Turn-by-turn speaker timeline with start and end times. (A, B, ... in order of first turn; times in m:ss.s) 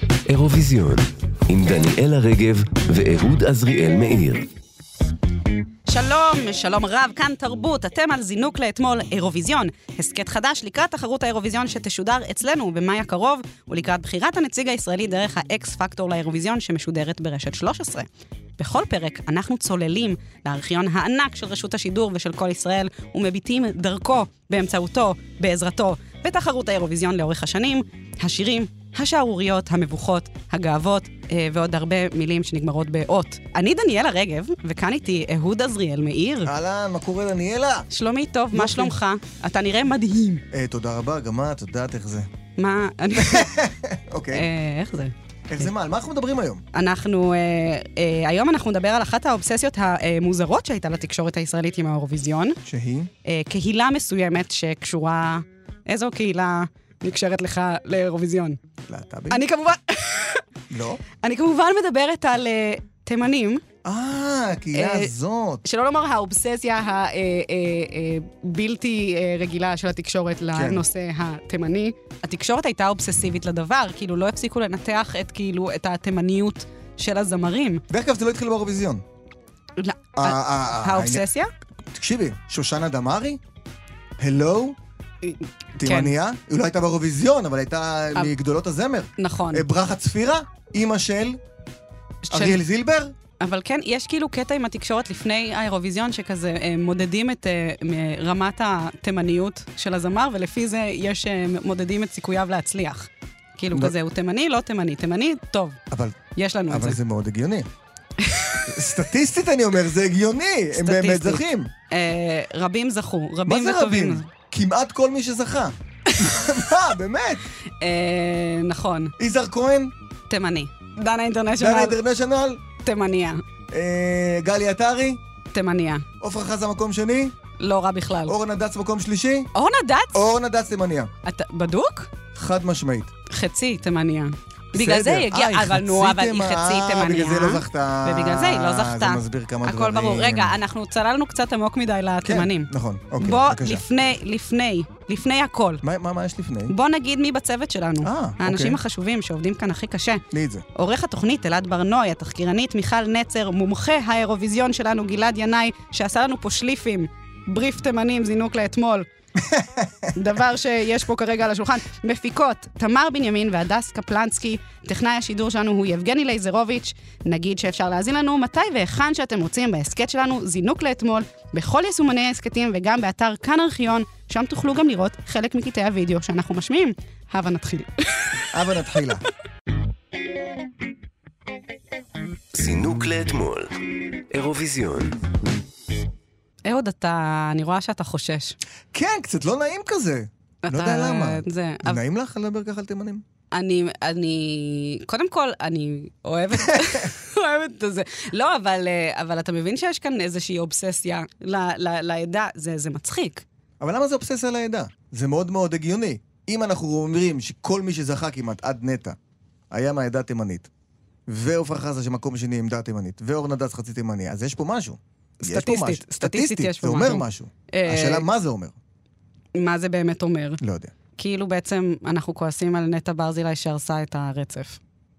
0:00.3-0:04.5 A
0:05.9-0:18.0 B
0:18.6-0:36.5 B
0:36.4-0:37.9 C
0:37.9-0:40.4 B
0:38.5-0:38.9 C
0:40.5-0:42.3 C
0:42.6-0:43.5 B
0:43.2-0:44.5 C
0:44.3-0:45.7 B
0:45.5-0:46.6 C
0:46.7-0:52.6 B
0:52.6-0:53.1 C
0:53.2-0:58.6 B
0:58.9-0:59.4 C
0:59.3-1:00.4 B
1:00.7-1:01.0 C
1:01.2-1:03.6 B
1:03.8-1:05.6 C
1:04.7-1:05.1 B
1:05.6-1:17.8 B
1:10.5-1:10.8 C
1:17.9-1:19.0 C
1:19.8-1:21.5 B
1:20.2-1:21.2 C
1:21.9-1:23.4 C
1:24.2-1:24.8 C
1:25.2-1:26.1 B
1:25.8-1:31.4 C
1:29.2-1:29.7 B
1:32.2-1:32.6 B
1:32.3-1:33.1 C
1:33.4-1:45.8 B
1:45.9-1:46.2 C
1:46.4-1:47.0 B
1:46.7-1:47.7 C
1:48.3-1:48.6 B
1:48.7-1:51.7 C
1:50.7-1:54.3 B
1:53.4-1:57.4 C
1:57.8-1:59.1 B
1:59.2-1:59.9 C
2:00.3-2:02.0 B
2:01.6-2:02.6 C
2:02.8-2:03.4 B
2:03.7-2:05.2 C
2:05.5-2:06.0 B
2:06.2-2:07.3 C
2:07.6-2:08.3 B
2:08.3-2:09.5 C
2:09.5-2:10.2 B
2:10.1-2:11.1 C
2:11.2-2:12.1 B
2:12.3-2:13.1 C
2:13.3-2:25.8 B
2:14.7-2:20.6 C
2:22.2-2:23.8 C
2:25.8-2:26.7 C
2:26.7-2:30.2 B
2:28.0-2:28.8 C
2:30.3-2:30.6 C
2:30.7-2:39.1 B
2:39.4-2:40.1 C
2:40.2-2:57.9 B
2:58.5-2:59.2 C
3:02.5-3:03.7 A
3:04.3-3:05.1 A
3:06.6-3:08.6 B
3:08.9-3:13.2 C
3:10.6-3:12.0 B
3:13.5-3:23.4 B
3:23.8-3:29.2 C
3:29.7-3:30.7 C
3:31.3-3:38.7 C
3:35.4-3:38.2 B
3:39.6-3:40.6 B
3:40.6-3:40.9 C
3:41.2-3:44.8 B